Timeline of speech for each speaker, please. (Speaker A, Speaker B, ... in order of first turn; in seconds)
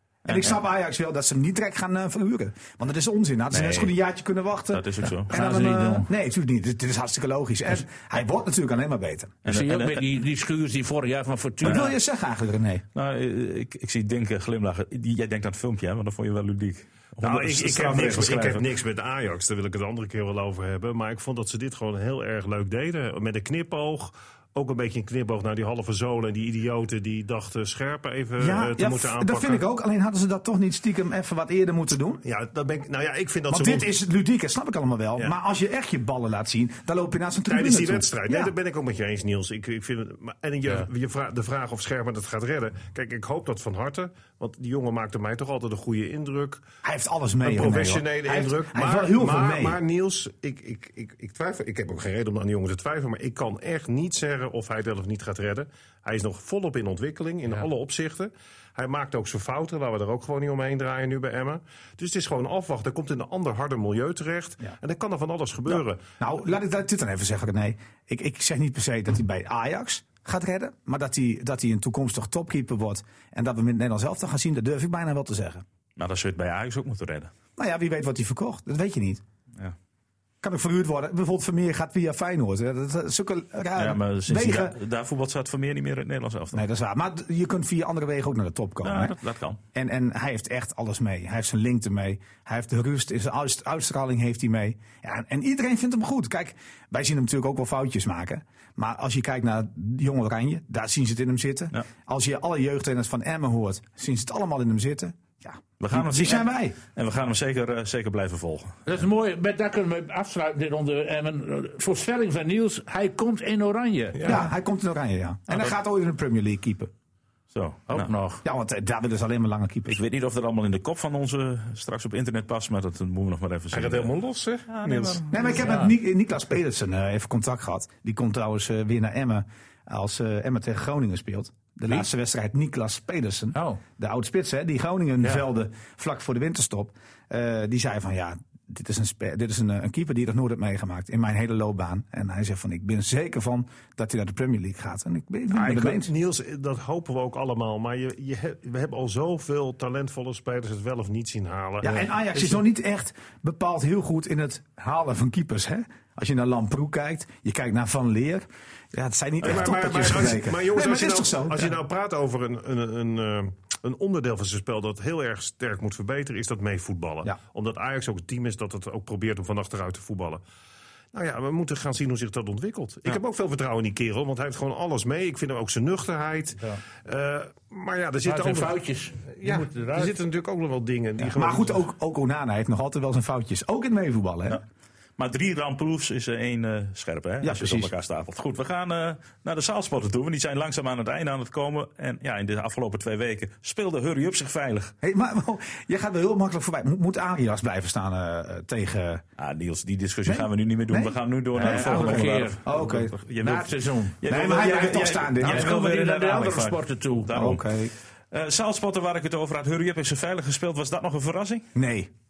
Speaker A: 0.2-9.4, 11.6-12.8, 28.4-32.2, 33.5-38.5, 46.8-49.8, 66.2-75.6, 77.6-79.2, 80.4-84.8, 86.5-89.2, 89.7-106.8, 114.2-116.9, 118.4-120.0, 125.3-146.1, 151.8-161.7, 181.2-184.6, 187.4-187.9, 195.0-199.2, 200.2-203.1, 204.3-205.8, 207.3-207.9, 211.7-212.1
Speaker B: 3.6-3.8, 4.7-5.3, 9.4-10.0, 12.9-18.6, 76.0-77.3, 83.8-86.6, 88.8-89.6, 105.8-108.8, 117.5-118.1, 119.9-124.1, 124.7-125.4, 185.2-194.9, 199.4-207.7, 208.3-211.7
Speaker C: 5.3-6.1, 9.4-11.9, 108.8-114.4, 117.9-118.4, 125.5-125.9, 133.5-133.8, 178.2-180.1, 201.5-202.6, 203.4-207.3
Speaker D: 17.2-29.6, 32.2-33.9, 37.5-46.6, 47.4-66.0, 123.7-125.3, 145.5-152.4, 159.4-170.4, 171.1-178.8, 179.3-181.8